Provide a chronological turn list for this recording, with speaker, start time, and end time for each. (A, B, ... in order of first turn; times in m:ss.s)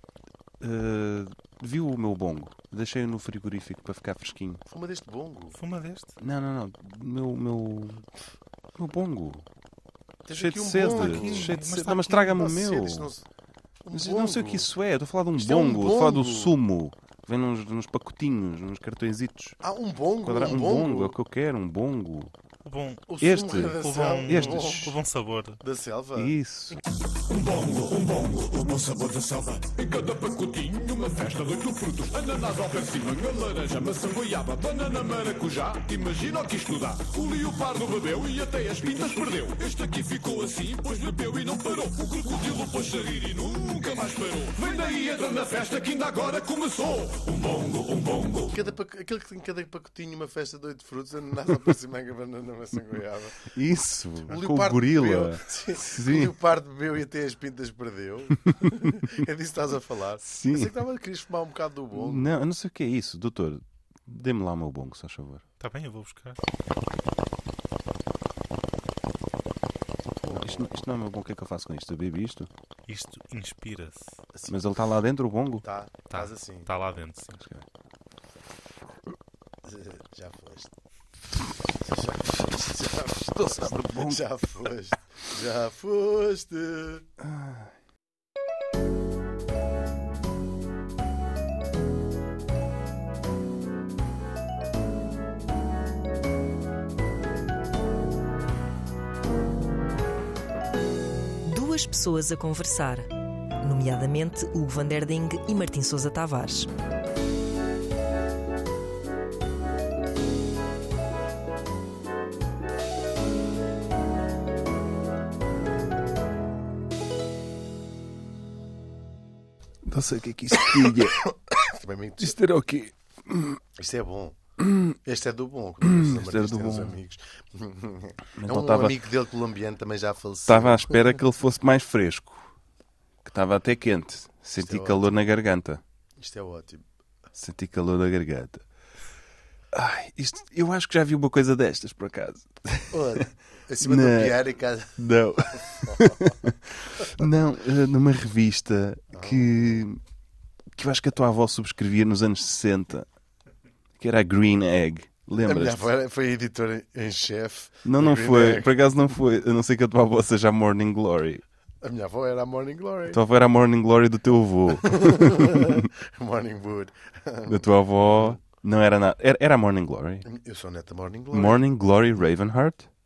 0:00.6-0:04.6 A
0:04.7-0:05.6 B
0:05.6-0:06.1 C
0:06.2-0:08.0 A
0:08.8-0:09.4 A
0:10.2-0:11.6 B
0:10.3-0:13.1 A
0:10.9-0:12.3 C
0:12.3-0:13.2 B
0:13.8-0:14.7 B
0:13.9-0:19.6 A
0:15.4-0:16.5 B
0:19.6-0:21.2 B
0:20.2-0:22.3 A
0:22.6-0:23.0 C
0:23.1-0:24.9 B
0:23.2-0:25.0 A
0:23.7-0:25.5 C
0:24.0-0:25.4 D
0:25.6-0:26.3 B
0:26.2-0:26.8 A
0:27.2-0:48.6 D
0:48.5-0:53.4 B
0:53.5-0:56.3 A
0:54.3-1:02.3 B
0:58.4-0:58.8 A
1:00.2-1:00.7 A
1:01.9-1:05.4 A
1:05.6-1:06.4 C
1:05.9-1:06.3 D
1:10.2-1:10.7 B
1:10.3-1:12.5 A
1:12.9-1:14.1 C
1:13.0-1:14.0 D
1:14.5-1:15.7 A
1:15.6-1:16.7 B
1:16.1-1:17.3 C
1:16.8-1:17.2 D
1:17.3-1:17.6 A
1:19.6-1:20.7 B
1:21.7-1:27.0 B
1:23.0-1:24.2 A
1:27.2-1:27.7 A
1:41.4-1:43.1 E
1:43.6-1:46.7 E
1:59.8-2:01.2 A
2:01.0-2:02.4 B
2:02.2-2:03.6 A
2:03.8-2:04.4 B
2:04.6-2:04.9 A
2:05.0-2:11.0 B
2:05.8-2:07.0 A
2:08.4-2:09.0 A
2:10.5-2:12.5 A
2:13.2-2:15.8 A
2:14.6-2:15.1 B
2:16.2-2:16.8 B
2:17.3-2:18.6 A
2:19.7-2:23.2 A
2:22.9-2:25.0 B
2:23.8-2:24.4 A
2:25.0-2:30.0 A
2:25.9-2:26.1 B
2:29.1-2:29.8 B
2:30.8-2:33.1 A
2:34.0-2:35.8 A
2:35.4-2:38.7 B
2:37.8-2:41.4 A
2:41.8-2:43.2 B
2:43.1-2:45.9 A
2:44.8-2:48.4 B
2:47.5-2:50.2 A
2:50.2-2:51.6 B
2:51.3-2:52.9 A